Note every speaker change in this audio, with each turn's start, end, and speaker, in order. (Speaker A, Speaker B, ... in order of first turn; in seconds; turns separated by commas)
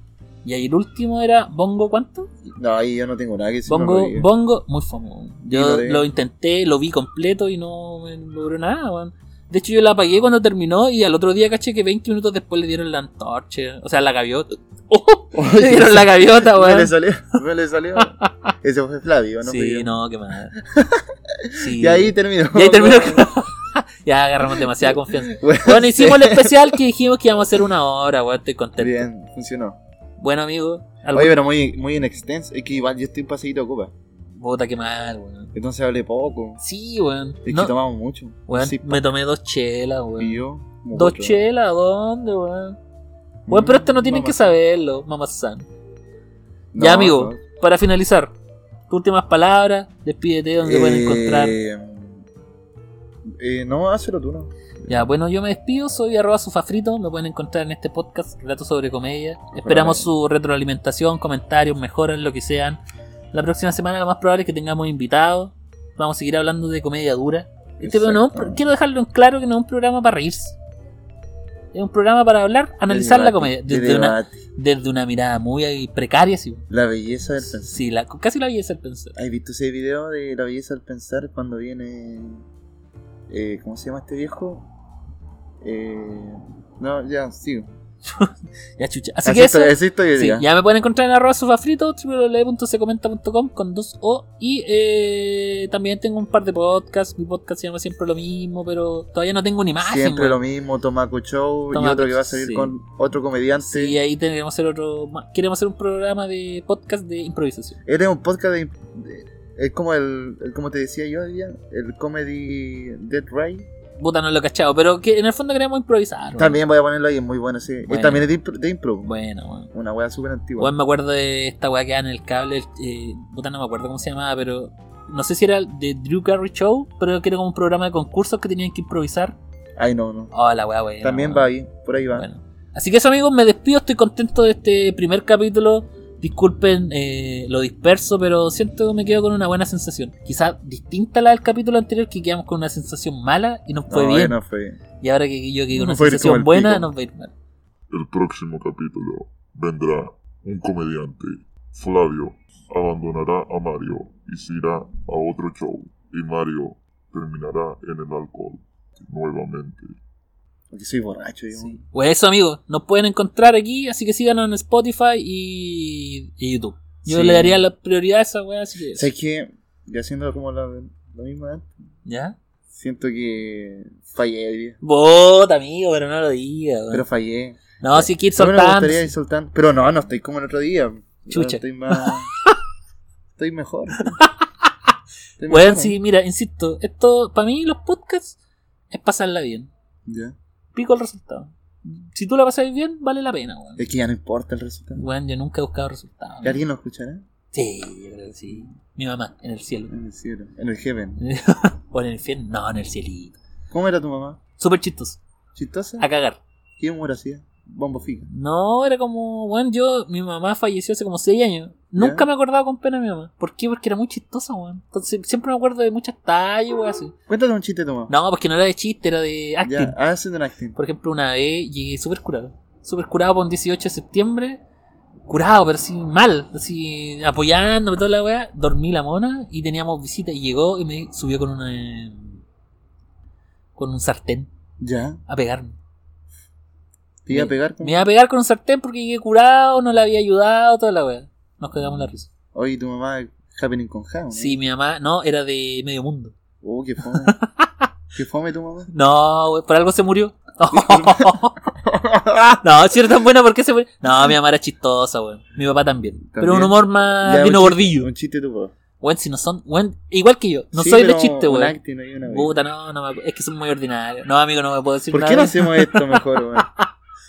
Speaker A: 0.4-2.3, Speaker B: 2.5-4.3, Speaker A: 3.7-16.9, Speaker B: 5.5-6.0, Speaker B: 15.3-19.9, Speaker A: 18.0-18.5, Speaker A: 19.4-20.6, Speaker B: 20.6-23.3, Speaker A: 21.5-29.1, Speaker B: 24.5-26.8, Speaker B: 28.8-29.8, Speaker A: 30.2-31.4, Speaker B: 31.1-33.9, Speaker A: 34.4-35.5, Speaker B: 35.5-36.6, Speaker A: 36.6-37.7, Speaker B: 37.5-39.0, Speaker A: 38.5-42.8, Speaker B: 40.2-41.4, Speaker B: 43.5-44.5, Speaker A: 43.5-45.6, Speaker B: 46.7-47.4, Speaker A: 46.8-48.3, Speaker A: 48.9-51.6, Speaker B: 50.6-52.2, Speaker B: 53.2-55.0, Speaker A: 54.9-62.8, Speaker B: 59.5-60.1, Speaker A: 63.3-70.5, Speaker B: 67.8-68.7, Speaker A: 71.7-76.6, Speaker B: 72.9-74.3, Speaker B: 76.7-77.8, Speaker A: 77.4-79.2, Speaker B: 79.2-82.4, Speaker B: 83.3-84.7, Speaker B: 85.6-87.7, Speaker A: 88.0-100.4, Speaker B: 89.2-90.5, Speaker B: 99.8-104.0, Speaker A: 101.7-102.7, Speaker A: 103.6-107.8, Speaker B: 107.8-113.7, Speaker A: 114.0-116.6, Speaker B: 116.4-119.1, Speaker A: 117.9-118.3, Speaker A: 119.0-119.7, Speaker B: 119.7-120.7, Speaker A: 120.6-129.4, Speaker B: 129.8-130.3, Speaker A: 130.3-131.5, Speaker B: 131.0-132.3, Speaker A: 132.1-144.4, Speaker B: 143.9-144.8, Speaker A: 145.0-147.3, Speaker B: 145.7-146.9, Speaker C: 147.9-159.9, Speaker B: 160.7-161.8, Speaker A: 161.5-169.1, Speaker B: 167.1-167.6, Speaker B: 168.9-171.7, Speaker A: 172.1-172.3, Speaker B: 172.7-174.8, Speaker A: 174.8-177.1, Speaker B: 176.9-182.3, Speaker A: 177.8-179.1, Speaker A: 181.3-182.6, Speaker B: 183.4-184.2, Speaker A: 184.0-184.7, Speaker B: 185.4-185.9, Speaker A: 185.5-188.4, Speaker A: 188.9-189.7, Speaker B: 190.1-190.3, Speaker A: 190.7-193.8, Speaker B: 193.8-195.0, Speaker A: 194.9-196.6, Speaker B: 196.4-197.2, Speaker A: 197.5-199.9, Speaker B: 199.9-201.2, Speaker A: 201.2-203.4, Speaker B: 203.7-204.4, Speaker A: 204.6-205.2, Speaker B: 205.5-206.1, Speaker A: 206.0-206.4, Speaker B: 206.8-208.3, Speaker A: 208.3-217.1, Speaker B: 211.9-212.2, Speaker B: 217.3-218.1, Speaker A: 218.1-219.9, Speaker B: 219.6-220.8, Speaker A: 220.8-224.6, Speaker A: 225.3-232.4, Speaker A: 233.8-234.5, Speaker B: 234.8-235.2, Speaker A: 235.3-235.8, Speaker B: 237.2-238.1, Speaker A: 237.3-242.3, Speaker B: 242.5-244.6, Speaker A: 244.3-246.3, Speaker B: 246.6-247.4, Speaker A: 247.1-247.9, Speaker B: 248.1-248.9, Speaker A: 248.9-251.6, Speaker B: 250.7-252.7, Speaker A: 252.6-258.1, Speaker B: 256.3-258.7, Speaker A: 259.0-266.2, Speaker B: 260.7-262.6, Speaker B: 265.1-266.7